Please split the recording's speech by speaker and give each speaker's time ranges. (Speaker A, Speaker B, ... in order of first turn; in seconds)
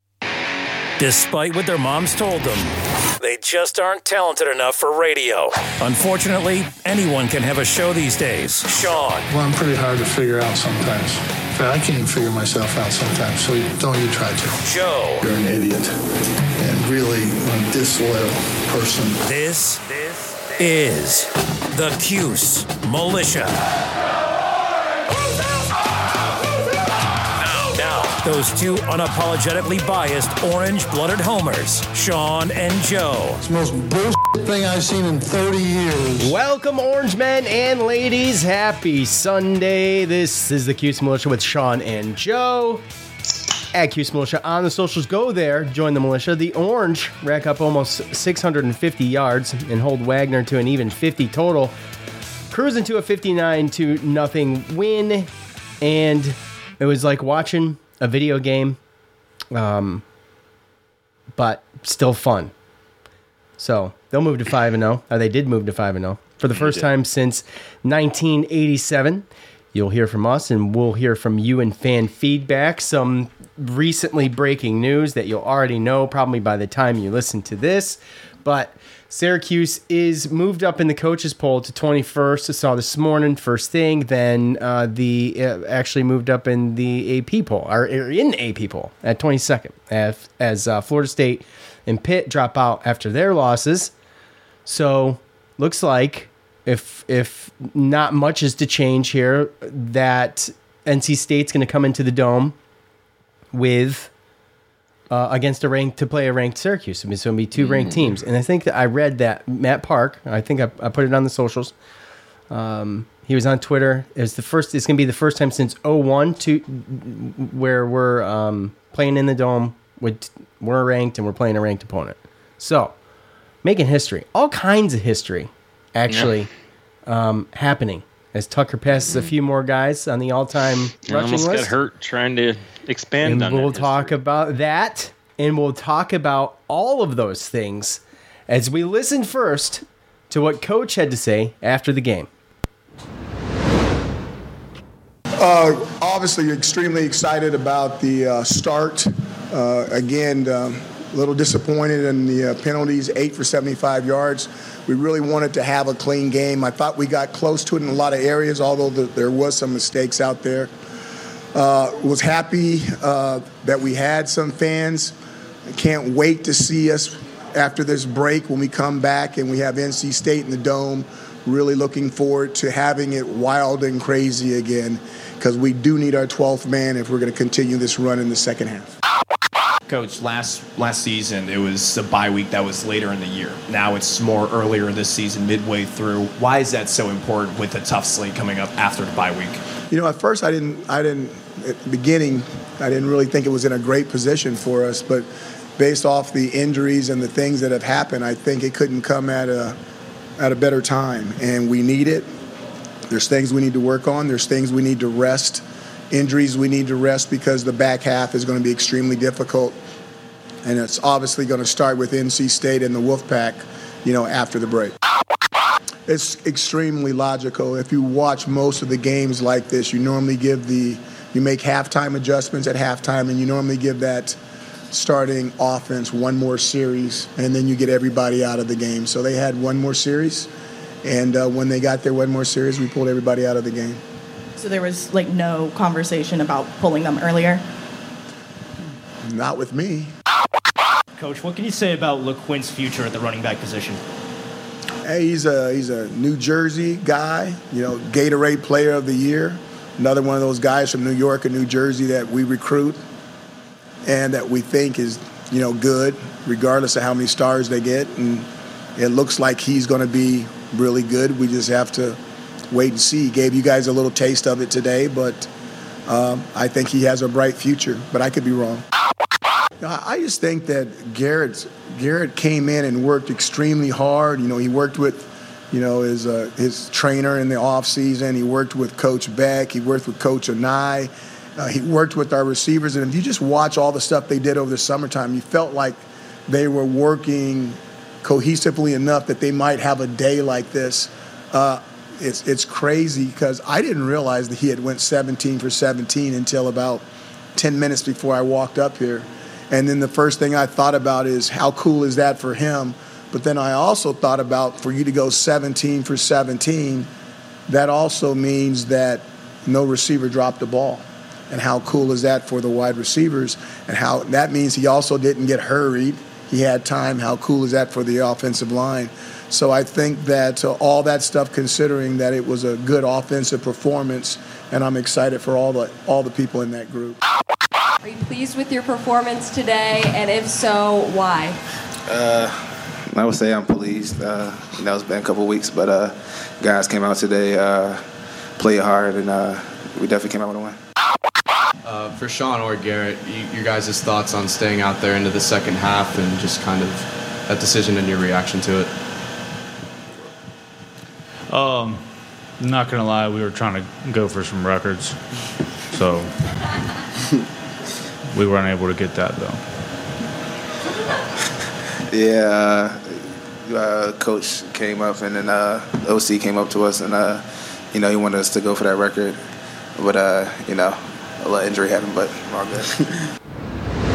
Speaker A: 1.0-9.3, 14.6-15.2, 19.2-23.6, 27.4-33.4
Speaker B: 9.3-14.6, 15.2-15.9, 16.6-19.2, 33.4-36.3
Speaker C: 36.2-42.8, 43.7-51.8, 52.5-58.8, 59.5-60.0, 61.4-62.5, 63.6-93.9, 94.7-102.6, 103.5-104.1, 105.1-111.7, 112.5-123.0, 123.6-126.5, 127.1-131.7, 133.2-142.3
Speaker D: 66.5-66.9, 131.1-134.2
Speaker E: 145.4-160.7, 161.5-165.1, 165.7-178.9, 189.9-199.8, 200.4-202.3, 203.1-209.8, 210.6-214.9, 216.1-224.4, 224.9-230.5, 231.0-234.0, 239.2-240.1, 245.1-253.0, 254.1-262.2, 262.7-265.5, 266.1-268.8, 269.8-297.0, 297.6-307.1, 307.7-327.2
Speaker F: 179.9-189.6
Speaker G: 234.6-237.6
Speaker H: 241.2-244.0
Speaker I: 328.0-331.6
Speaker J: 332.1-340.8, 362.1-369.4, 370.0-373.1
Speaker K: 341.8-348.9
Speaker L: 351.5-352.1, 352.6-355.2, 355.9-356.4, 358.3-359.6